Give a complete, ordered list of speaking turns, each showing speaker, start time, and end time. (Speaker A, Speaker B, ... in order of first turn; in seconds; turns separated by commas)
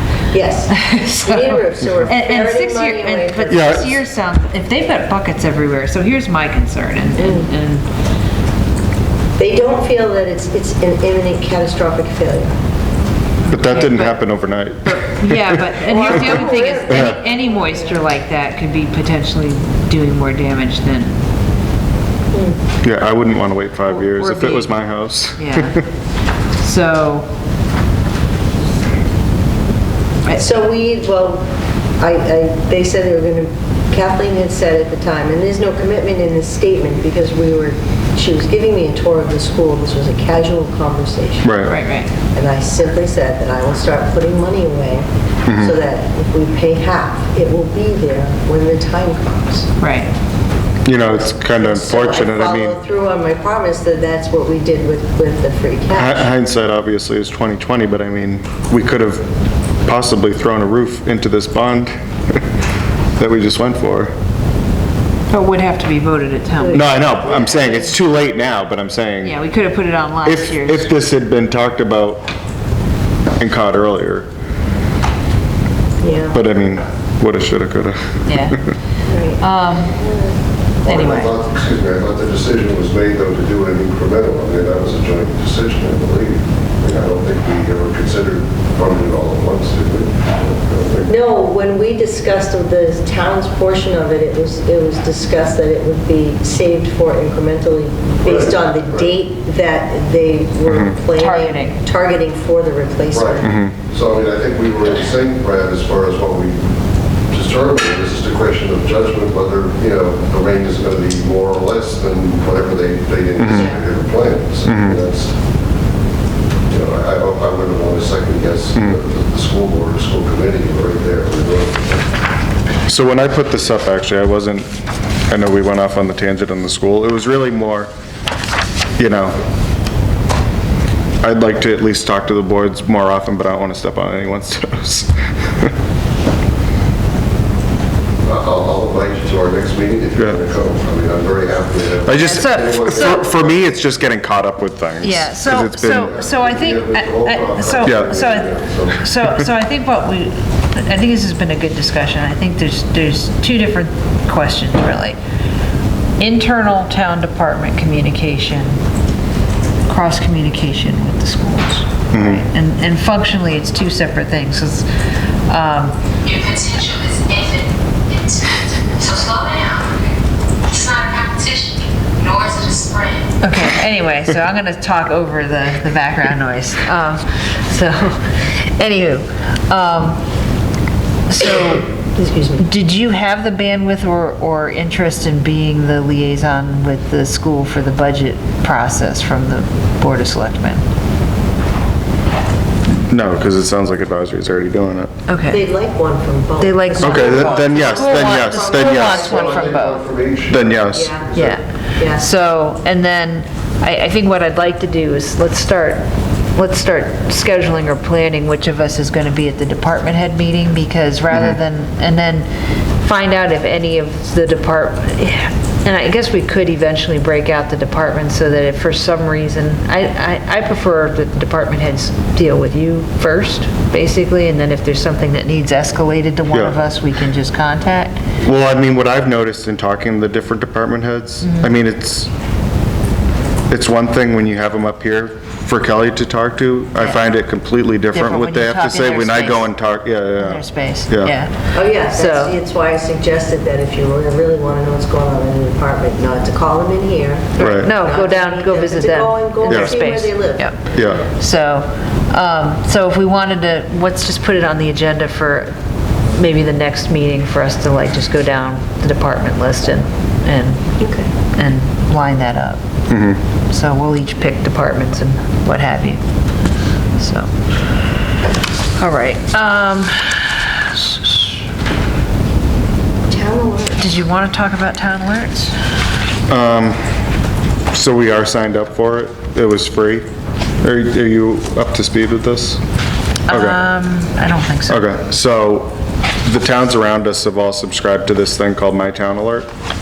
Speaker A: 0.3-3.9, Speaker B: 0.7-7.9, Speaker C: 3.5-3.9, Speaker A: 7.2-7.5, Speaker A: 9.4-12.5, Speaker B: 13.4-14.2, Speaker C: 13.5-15.8, Speaker B: 14.8-21.2, Speaker A: 15.8-18.0, Speaker C: 16.9-17.1, Speaker A: 22.3-22.6, Speaker C: 22.8-25.8, Speaker B: 23.9-24.7, Speaker B: 25.4-25.8, Speaker B: 26.6-27.3, Speaker A: 30.3-31.4, Speaker A: 32.0-41.6, Speaker C: 41.4-41.7, Speaker B: 41.6-42.1, Speaker A: 42.3-49.7, Speaker C: 45.5-45.7, Speaker B: 49.8-50.1, Speaker C: 50.8-52.8, Speaker A: 51.5-56.2, Speaker C: 55.9-59.2, Speaker C: 59.8-62.4, Speaker C: 63.2-64.1, Speaker B: 65.3-67.0, Speaker A: 66.6-67.8, Speaker C: 66.7-69.3, Speaker B: 69.2-70.9, Speaker C: 70.2-72.2, Speaker C: 73.4-74.3, Speaker A: 76.0-76.4, Speaker C: 76.3-78.7, Speaker B: 78.2-78.6, Speaker A: 79.1-80.3, Speaker B: 79.4-80.0, Speaker D: 80.8-91.2, Speaker B: 80.8-81.3, Speaker A: 91.1-103.5, Speaker D: 98.2-99.1, Speaker C: 100.7-100.9, Speaker B: 101.1-101.8, Speaker D: 103.1-106.7, Speaker C: 103.4-103.7, Speaker D: 107.3-115.4, Speaker C: 113.4-113.7, Speaker C: 114.6-115.0, Speaker D: 116.7-122.1, Speaker C: 122.9-124.7, Speaker C: 125.3-127.9, Speaker C: 129.0-129.3, Speaker C: 131.2-135.7, Speaker D: 138.2-143.2, Speaker C: 142.1-146.2, Speaker B: 142.2-143.4, Speaker B: 145.0-155.2, Speaker D: 146.0-149.0, Speaker C: 147.8-148.2, Speaker B: 156.2-158.8, Speaker B: 159.9-164.8, Speaker C: 162.1-162.4, Speaker B: 165.5-167.6, Speaker E: 166.4-167.7, Speaker B: 168.9-169.6, Speaker E: 169.1-169.9, Speaker E: 170.7-173.2, Speaker B: 173.4-180.2, Speaker B: 181.3-181.9, Speaker A: 182.2-182.6, Speaker B: 182.6-190.8, Speaker C: 193.1-195.1, Speaker B: 195.3-195.6, Speaker A: 195.5-200.0, Speaker B: 196.6-200.1, Speaker C: 197.0-199.3, Speaker D: 199.1-201.6, Speaker C: 200.5-201.2, Speaker A: 200.9-201.3, Speaker B: 201.3-212.5, Speaker A: 201.9-202.3, Speaker B: 213.0-228.2, Speaker C: 226.5-226.8, Speaker C: 228.4-232.3, Speaker B: 231.4-231.7, Speaker C: 233.7-241.3, Speaker B: 238.1-239.7, Speaker B: 240.3-242.6, Speaker A: 241.7-250.7, Speaker C: 247.6-247.9, Speaker B: 247.6-255.7, Speaker C: 249.7-249.9, Speaker C: 250.9-251.2, Speaker B: 256.3-260.8, Speaker A: 261.0-261.3, Speaker B: 261.5-262.8, Speaker C: 263.1-263.4, Speaker B: 263.7-266.2, Speaker B: 267.2-267.5, Speaker B: 268.9-271.5, Speaker A: 273.3-274.1, Speaker B: 274.0-275.7, Speaker C: 276.5-277.0, Speaker C: 277.9-280.2, Speaker C: 280.8-282.8, Speaker B: 283.5-285.1, Speaker C: 283.5-283.8, Speaker C: 284.9-285.9, Speaker C: 286.4-289.7